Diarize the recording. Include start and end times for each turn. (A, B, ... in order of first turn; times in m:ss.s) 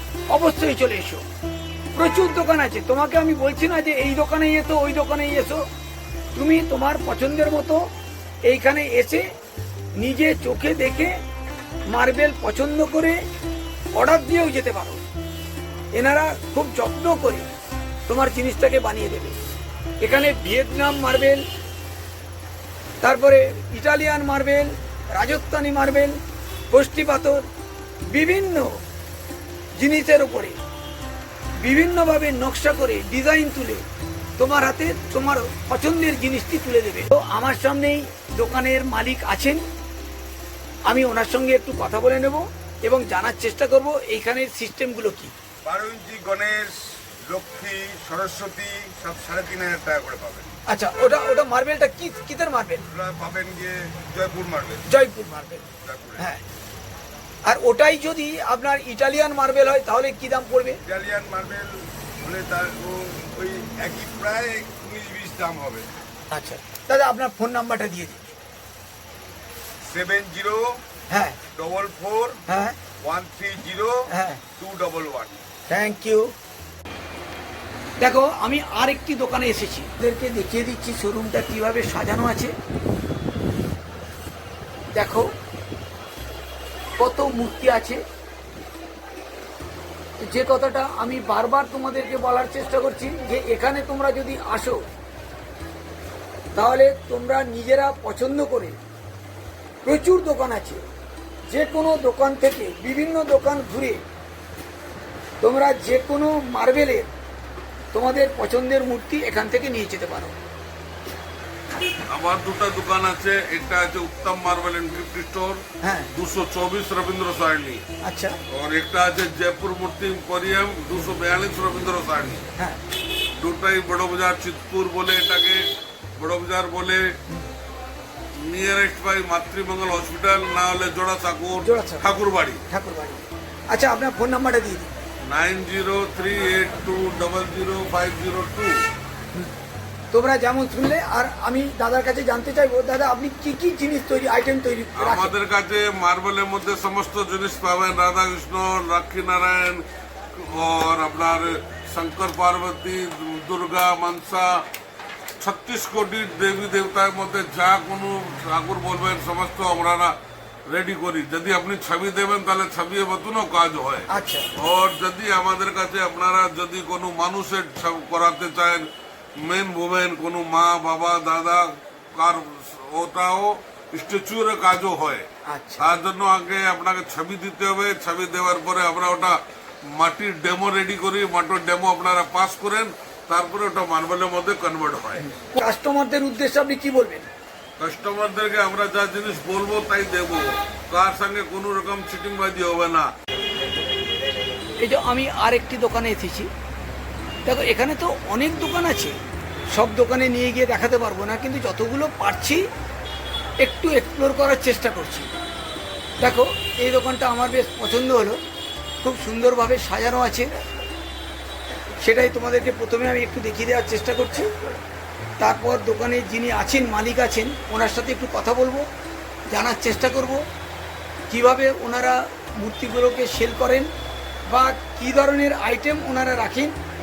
0:00.3-0:01.2 A
0:01.9-0:05.6 A
0:06.4-0:07.9 A
0:08.4-0:09.2 A
0:10.0-0:11.2 A
0:11.9-0:13.2 A
0:13.9-0:15.0 A
0:15.9-0:17.5 A
0:18.1-0:19.4 A
0:20.0-0:21.4 A
0:23.0-0:26.2 A
0:26.7-0:27.5 A
0:28.1-0:28.8 A
0:29.8-0:30.6 A
0:31.6-0:33.8 A
0:34.4-0:39.6 A
0:40.9-0:45.3 A
0:45.6-0:50.5 B
0:50.7-0:52.8 A
0:52.9-0:54.9 B
0:54.9-0:55.6 A
0:55.8-0:56.3 B
0:57.4-1:00.8 A
1:00.8-1:05.9 B
1:06.3-1:08.2 A
1:09.8-1:10.8 B
1:11.1-1:11.4 A
1:11.5-1:12.4 B
1:12.5-1:12.8 A
1:13.0-1:14.0 B
1:14.1-1:14.4 A
1:14.5-1:15.4 B
1:15.7-1:16.3 A
1:18.0-1:22.5 A
1:24.9-1:25.3 A
1:27.0-1:28.0 A
1:30.2-1:34.8 A
1:36.5-1:38.8 A
1:39.8-1:40.8 A
1:41.5-1:44.0 A
1:45.4-1:47.1 A
1:47.9-1:50.4 A
1:52.1-1:55.6 C
1:55.8-1:56.1 A
1:56.1-1:57.8 C
1:58.0-1:58.4 A
1:58.5-2:02.4 C
2:03.4-2:05.6 C
2:06.2-2:07.0 C
2:08.4-2:12.6 C
2:11.6-2:12.0 A
2:12.7-2:14.9 A
2:15.3-2:18.8 C
2:20.1-2:25.3 A
2:25.0-2:34.6 C
2:35.4-2:40.2 C
2:40.7-2:44.1 C
2:44.1-2:44.5 A
2:44.6-2:48.9 C
2:49.4-2:55.3 C
2:55.5-2:56.0 A
2:55.8-2:59.4 C
2:59.9-3:05.3 C
3:05.2-3:07.3 A
3:07.8-3:13.1 C
3:14.8-3:16.5 A
3:17.4-3:19.2 A
3:19.7-3:22.7 A
3:23.6-3:25.3 A
3:26.2-3:28.4 A
3:29.0-3:30.5 A
3:32.0-3:34.5 A
3:35.4-3:38.9 A
3:39.5-3:40.4 A
3:41.3-3:43.9 A
3:44.5-3:46.8 A